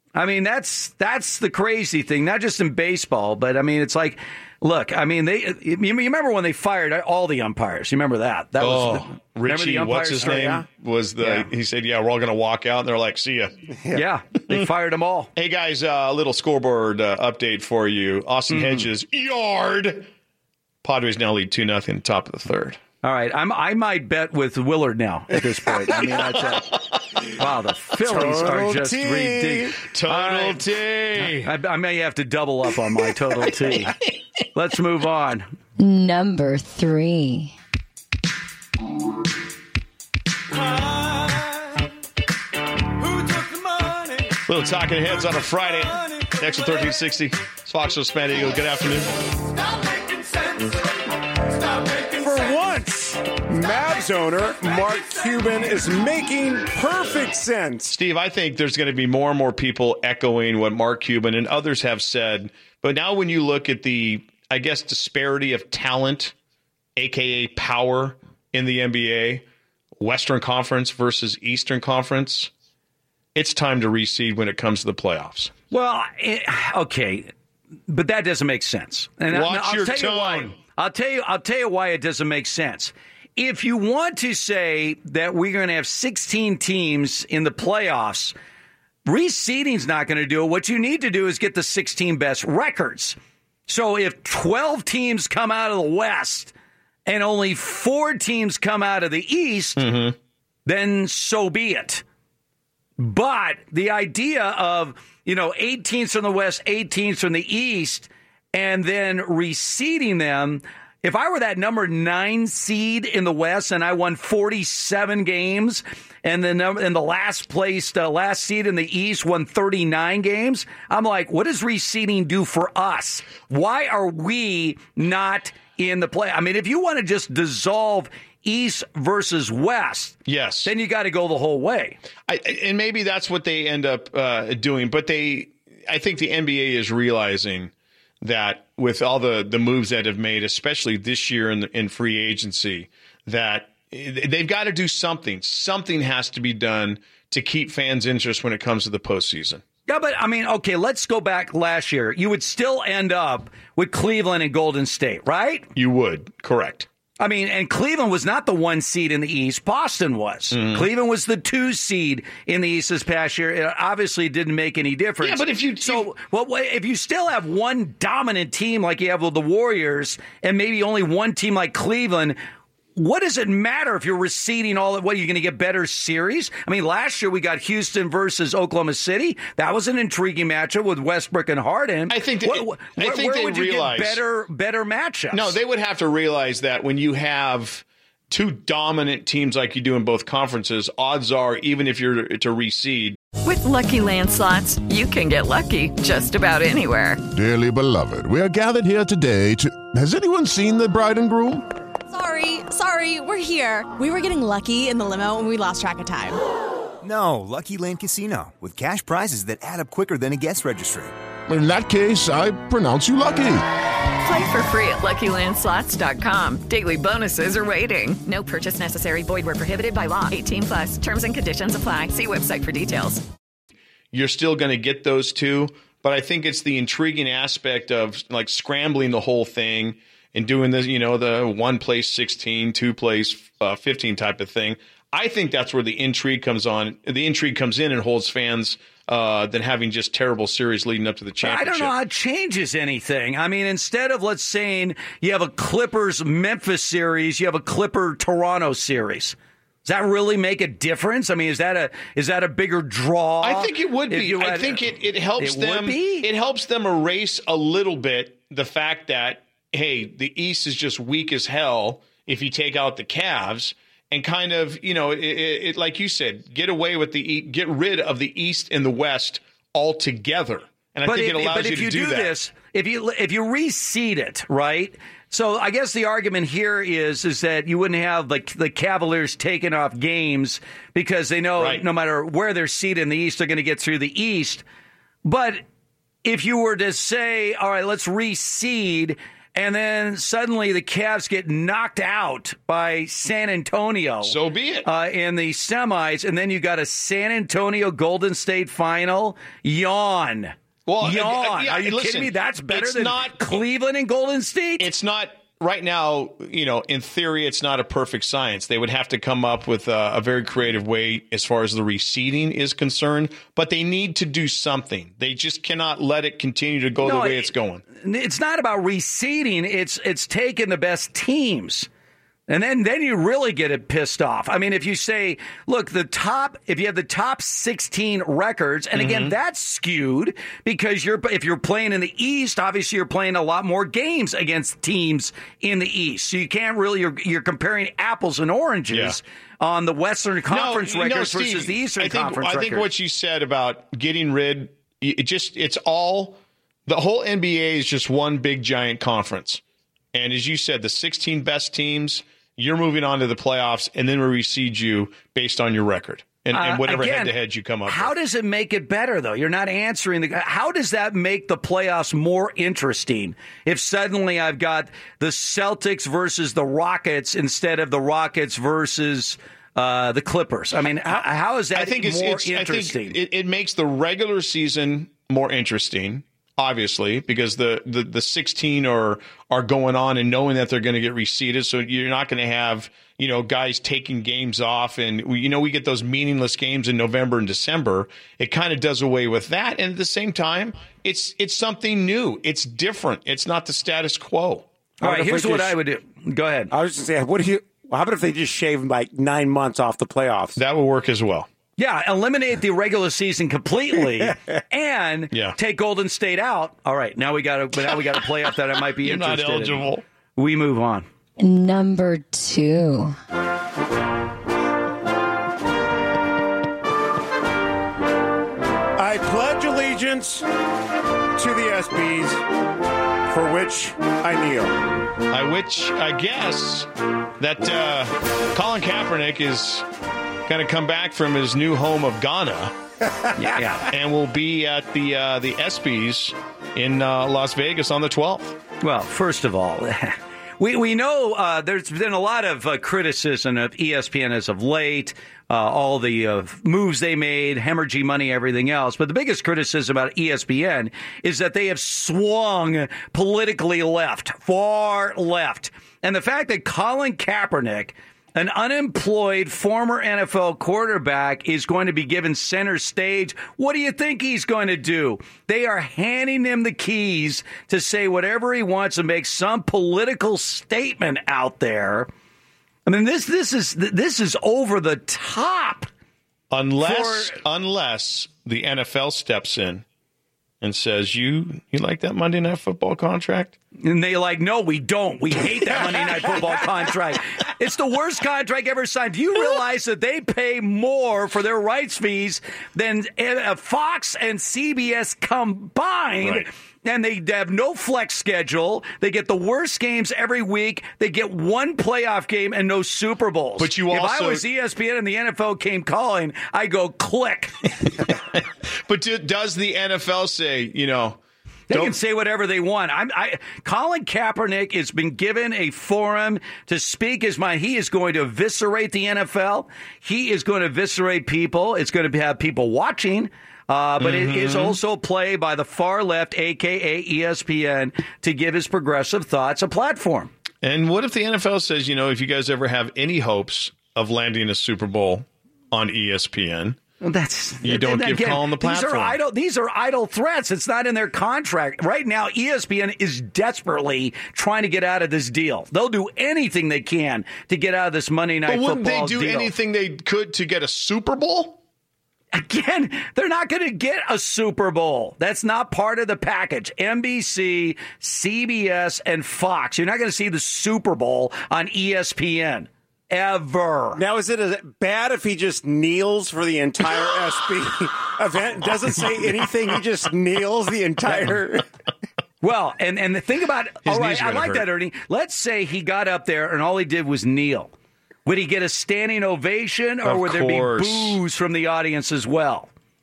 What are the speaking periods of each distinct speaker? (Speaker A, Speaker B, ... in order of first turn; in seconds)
Speaker A: 0.1-10.5, 13.9-15.3, 18.5-18.9, 23.0-30.6, 31.2-34.0, 34.5-35.5, 75.7-77.3, 77.9-88.3, 89.0-93.2, 93.7-96.5, 97.0-99.9, 100.7-102.0, 103.0-132.0, 149.9-155.7, 157.2-172.4, 172.9-185.6, 241.4-256.3, 271.1-284.6, 285.2-285.6, 286.2-304.9, 317.0-321.9, 322.5-342.9, 356.5-357.3, 357.9-373.2, 395.0-396.7, 401.8-411.1, 433.3-433.9, 438.8-472.1, 472.9-475.9, 476.8-477.4, 483.8-507.7, 511.7-530.3, 537.0-549.5, 552.3-564.0, 572.4-577.7, 578.2-582.7
Speaker B: 8.6-13.6, 15.3-20.1, 20.8-22.8, 29.8-31.5, 44.5-49.2, 57.9-66.3, 67.0-69.5, 70.0-72.5, 73.3-75.5, 79.3-80.5, 99.8-100.2, 130.2-130.7, 132.2-149.6, 155.7-156.9, 160.5-160.9, 165.2-166.1, 182.1-184.2, 185.3-193.2, 224.1-241.9, 253.4-272.3, 281.6-281.8, 294.2-294.9, 300.9-303.6, 304.8-317.8, 328.9-329.3, 338.9-339.2, 340.5-349.6, 350.1-358.1, 371.7-395.7, 400.6-401.5, 409.0-410.0, 425.3-426.9, 427.4-429.9, 430.5-432.8, 433.9-438.6, 476.5-479.8, 480.6-483.6, 496.2-496.4, 503.6-504.4, 508.1-512.0, 524.0-524.8, 530.6-536.8, 537.6-539.2, 548.5-551.6, 573.8-574.7, 580.0-581.2
Speaker C: 10.2-10.6, 28.0-29.8, 43.2-44.2, 51.9-57.9, 395.2-395.6, 396.7-400.6, 419.0-420.4, 421.4-422.4, 423.3-424.8, 564.0-571.6
Speaker D: 35.8-37.5, 411.4-413.1
Speaker E: 193.4-197.2, 214.2-223.2
Speaker F: 197.3-201.7, 211.5-213.6
Speaker G: 202.1-206.4
Speaker H: 207.0-211.1